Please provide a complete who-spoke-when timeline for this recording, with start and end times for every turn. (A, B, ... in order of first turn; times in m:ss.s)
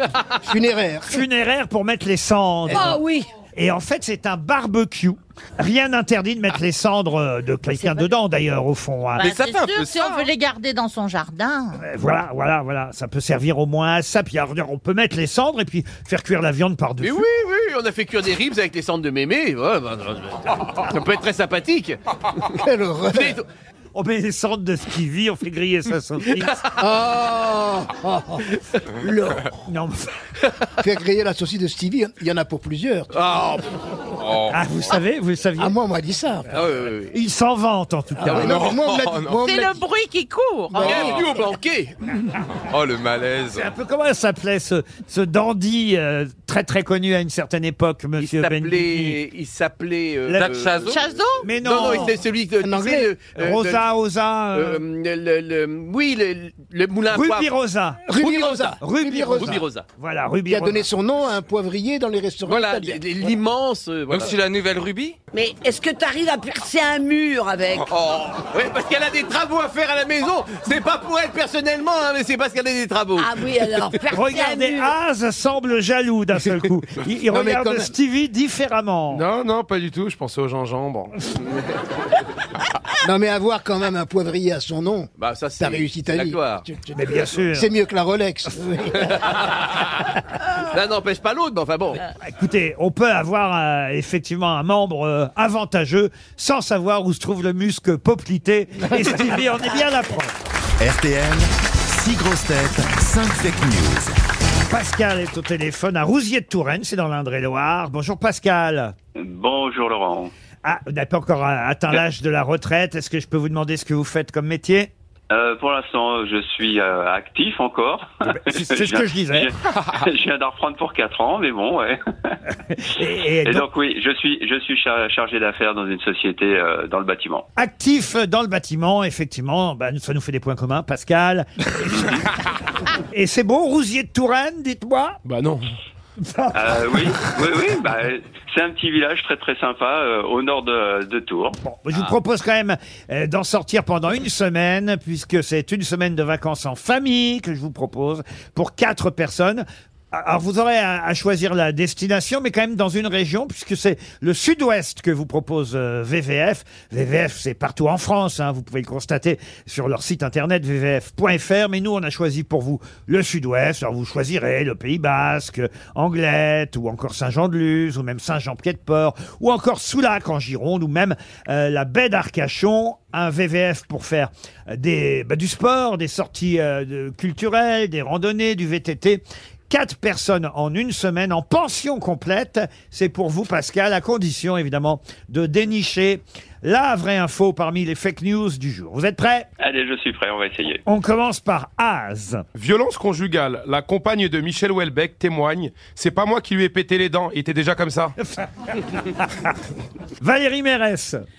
0:00.4-0:01.2 A
0:01.1-0:03.0 B
0:02.7-0:02.9 A
0:02.7-0:03.3 C
0:03.5-0:09.2 B
0:09.2-0:11.8 D
0:09.2-0:10.3 E
0:11.8-0:17.2 B
0:17.0-0:22.5 F
0:22.5-0:23.4 A
0:23.1-0:23.4 F
0:23.9-0:26.6 B
0:26.2-0:26.6 F
0:26.8-0:29.5 A
0:29.7-0:30.1 B
0:30.8-0:33.1 A
0:33.1-0:33.6 F
0:34.2-0:34.6 E
0:34.5-0:35.8 B
0:35.6-0:36.5 A
0:36.5-0:37.1 F
0:37.1-0:38.7 B
0:38.2-0:39.8 A
0:38.2-0:38.7 F
0:38.7-0:39.2 E
0:39.3-0:40.9 D
0:40.7-0:41.2 A
0:40.8-0:41.9 F
0:42.7-0:43.7 E
0:43.5-0:49.2 B
0:48.2-0:51.0 F
0:50.3-0:51.0 E
0:50.9-0:51.5 D
0:51.4-0:52.2 B
0:51.6-0:53.8 F
0:52.6-0:53.1 A
0:53.3-0:54.8 B
0:54.5-0:57.5 F
0:57.1-0:58.1 B
0:58.1-0:59.6 A
0:58.1-0:59.8 F
0:58.8-1:00.9 B
1:00.5-1:03.3 A
1:02.4-1:04.3 F
1:04.1-1:05.2 E
1:05.3-1:07.9 C
1:07.9-1:13.4 F
1:13.2-1:14.9 C
1:14.1-1:19.2 B
1:17.3-1:17.9 A
1:19.1-1:21.2 G
1:23.0-1:29.2 A
1:25.2-1:26.6 F
1:26.9-1:27.7 B
1:28.9-1:29.9 F
1:30.7-1:32.0 F
1:32.2-1:40.4 B
1:38.9-1:39.3 A
1:40.8-1:44.2 H
1:44.7-1:48.9 B
1:49.2-1:50.3 I
1:50.6-1:54.9 B
1:55.3-2:02.3 I
1:58.2-1:59.5 B
2:02.7-2:03.7 B
2:03.4-2:07.4 I
2:07.6-2:12.0 B
2:13.1-2:15.2 B
2:15.2-2:15.7 G
2:16.2-2:17.2 B
2:16.5-2:21.6 I
2:21.6-3:09.5 B
3:09.6-3:10.8 I
3:10.8-3:12.4 B
3:12.5-3:18.1 G
3:18.2-3:19.5 B
3:20.2-3:21.2 B